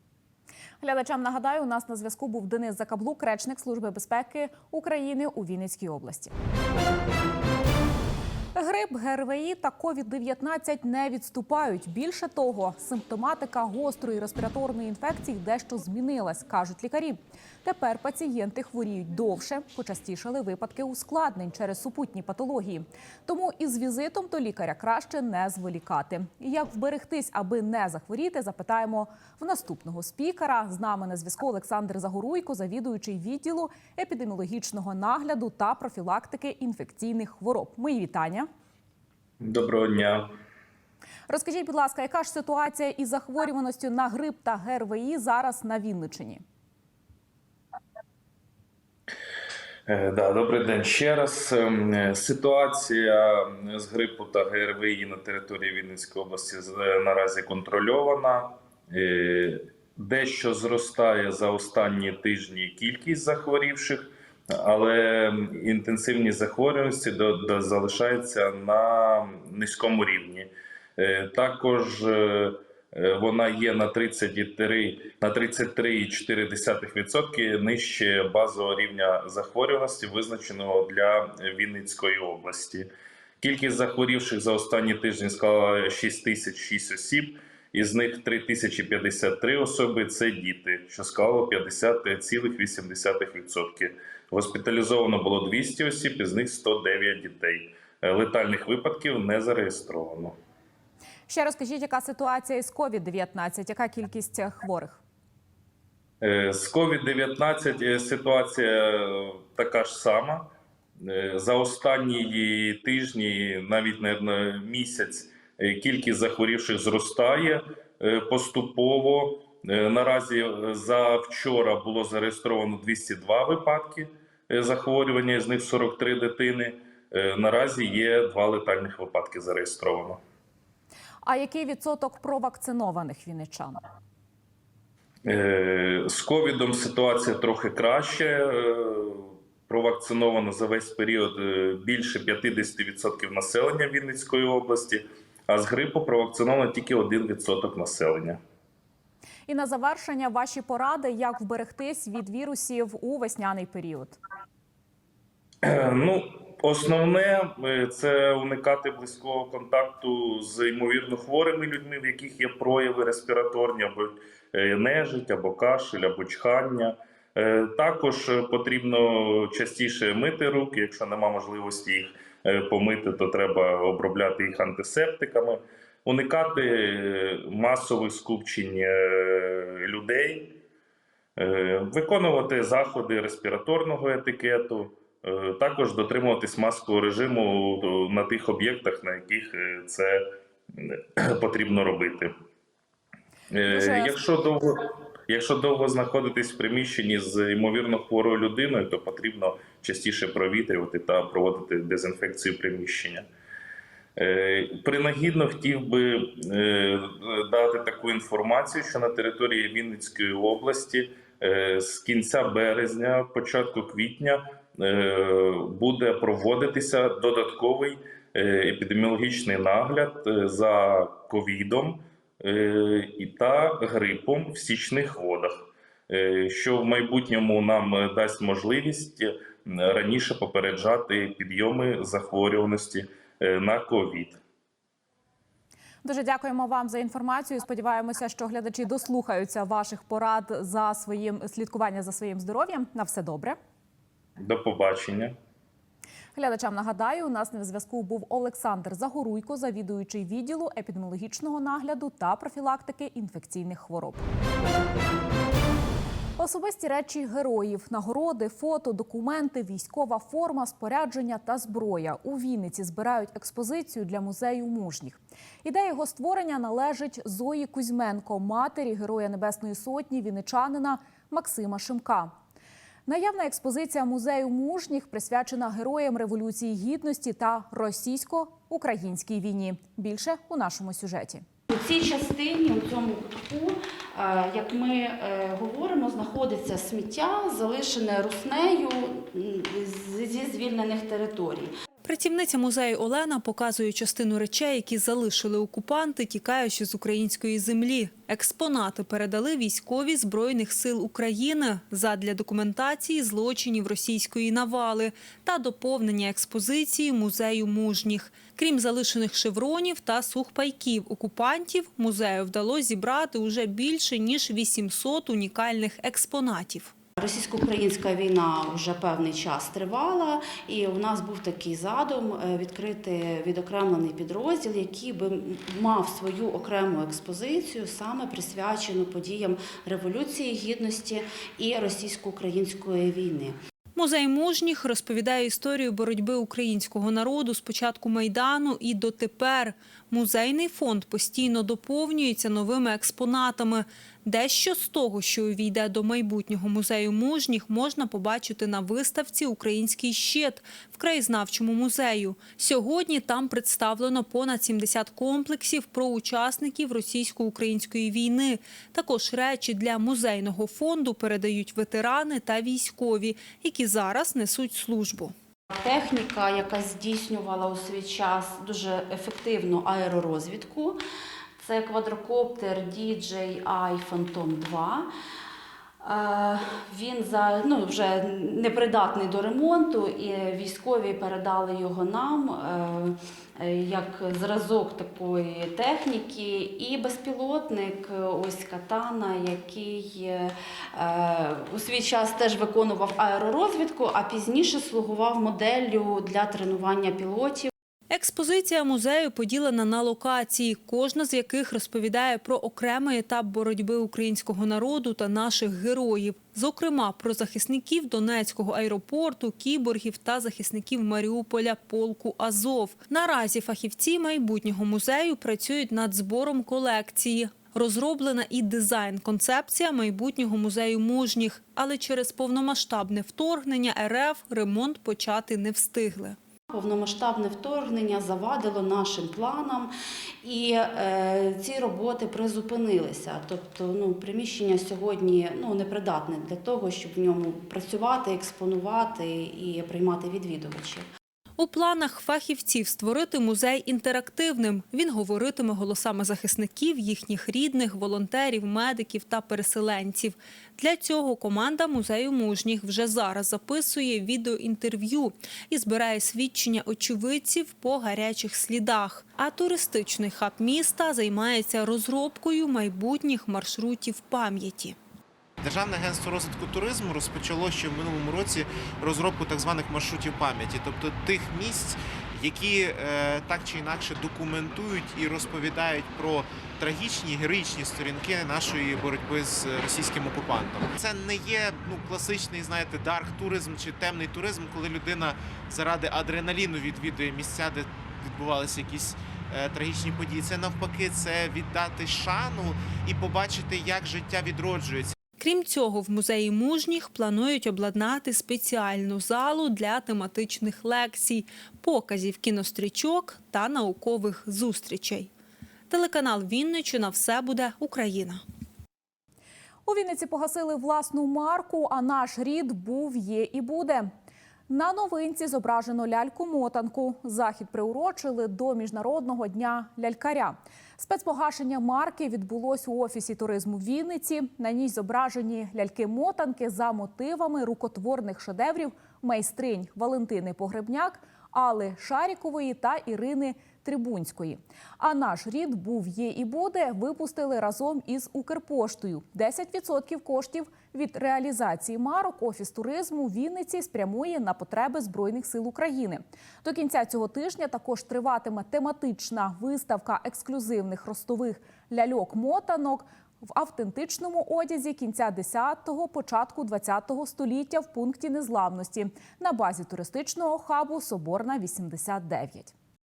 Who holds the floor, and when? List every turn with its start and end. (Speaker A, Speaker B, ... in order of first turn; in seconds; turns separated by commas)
Speaker A: 0.8-6.3, Speaker A: 8.6-38.5, Speaker B: 39.4-40.3, Speaker A: 41.3-46.4, Speaker B: 49.9-82.9, Speaker B: 83.4-100.3, Speaker A: 101.3-105.0, Speaker B: 106.2-110.5, Speaker B: 111.0-130.2, Speaker A: 131.2-133.8, Speaker B: 135.3-148.4, Speaker A: 149.5-154.2, Speaker B: 155.7-180.6, Speaker B: 181.4-190.2, Speaker B: 190.8-192.3, Speaker B: 193.5-194.8, Speaker A: 193.7-194.2, Speaker B: 195.3-203.2, Speaker B: 204.2-234.4, Speaker A: 236.0-243.6, Speaker B: 244.4-245.3, Speaker A: 246.3-254.2, Speaker A: 256.4-272.3, Speaker A: 273.1-281.4, Speaker C: 281.7-291.7, Speaker D: 292.1-316.9, Speaker C: 317.2-333.6, Speaker D: 333.9-365.3, Speaker C: 365.7-371.0, Speaker C: 371.6-375.1, Speaker C: 376.0-397.7, Speaker D: 398.1-426.4, Speaker C: 426.7-429.9, Speaker C: 430.4-441.1, Speaker D: 441.6-465.0, Speaker E: 465.6-495.1, Speaker D: 495.4-505.3, Speaker D: 505.9-508.4, Speaker A: 509.9-514.1, Speaker A: 514.7-562.7